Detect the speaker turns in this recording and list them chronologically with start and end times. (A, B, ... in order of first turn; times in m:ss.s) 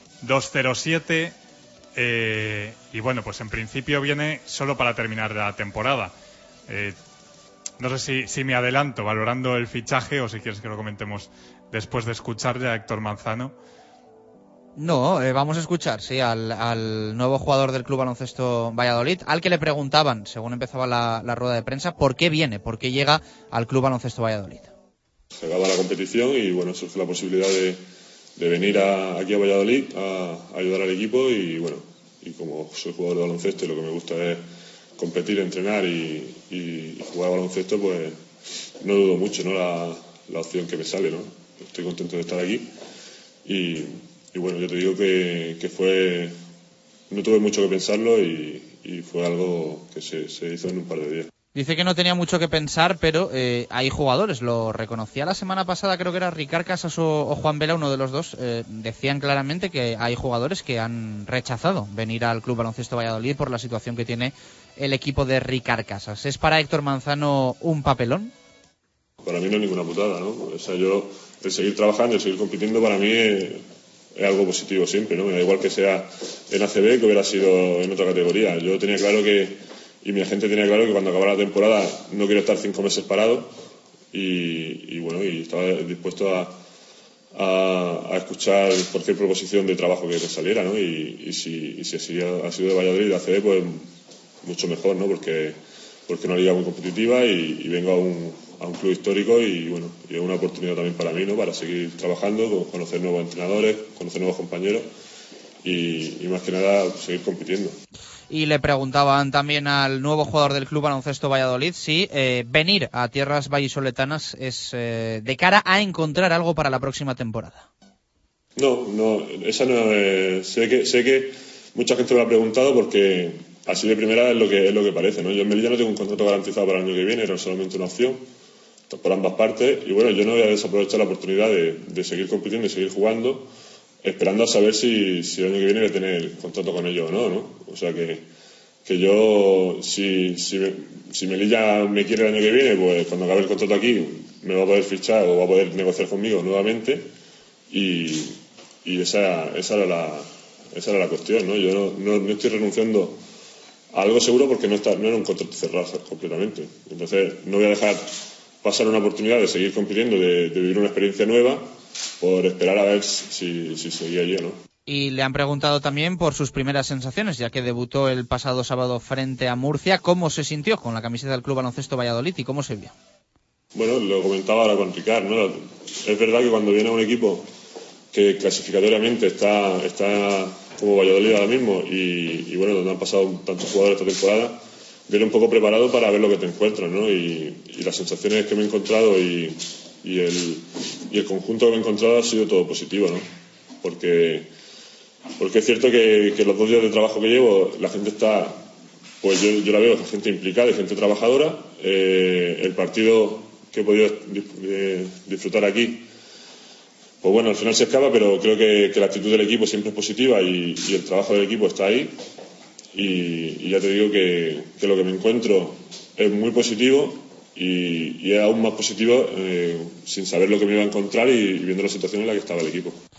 0:00.2-0:01.4 A
0:02.0-0:06.1 A
0:06.7-0:07.0 A
0:07.8-0:13.5 A
0:14.8-0:24.7 B
0:25.4-0:27.8 C
0:28.4-0:34.4 C
0:35.0-0:38.2 C
0:38.8-0:42.7 C
0:43.4-0:46.3 C
0:47.1-0:51.3 C
0:51.5-1:08.3 B
1:09.2-1:13.6 C
1:14.2-1:23.5 C
1:24.1-1:26.6 C
1:27.3-1:33.9 C
1:34.4-1:35.6 C
1:36.1-1:44.9 C
1:45.6-1:47.8 C
1:48.3-1:57.7 B
1:58.6-2:08.2 C
2:08.9-2:13.5 C
2:14.0-2:18.2 C
2:18.9-2:27.1 C
2:27.7-2:33.2 C
2:33.9-2:38.0 C
2:38.6-2:41.6 C
2:42.2-2:44.6 C
2:44.9-2:52.9 B
2:53.7-2:57.5 C
2:58.1-3:13.3 C
3:13.8-3:14.5 C
3:15.4-3:18.6 C
3:19.2-3:26.0 C
3:27.2-3:32.2 C
3:32.9-3:43.0 C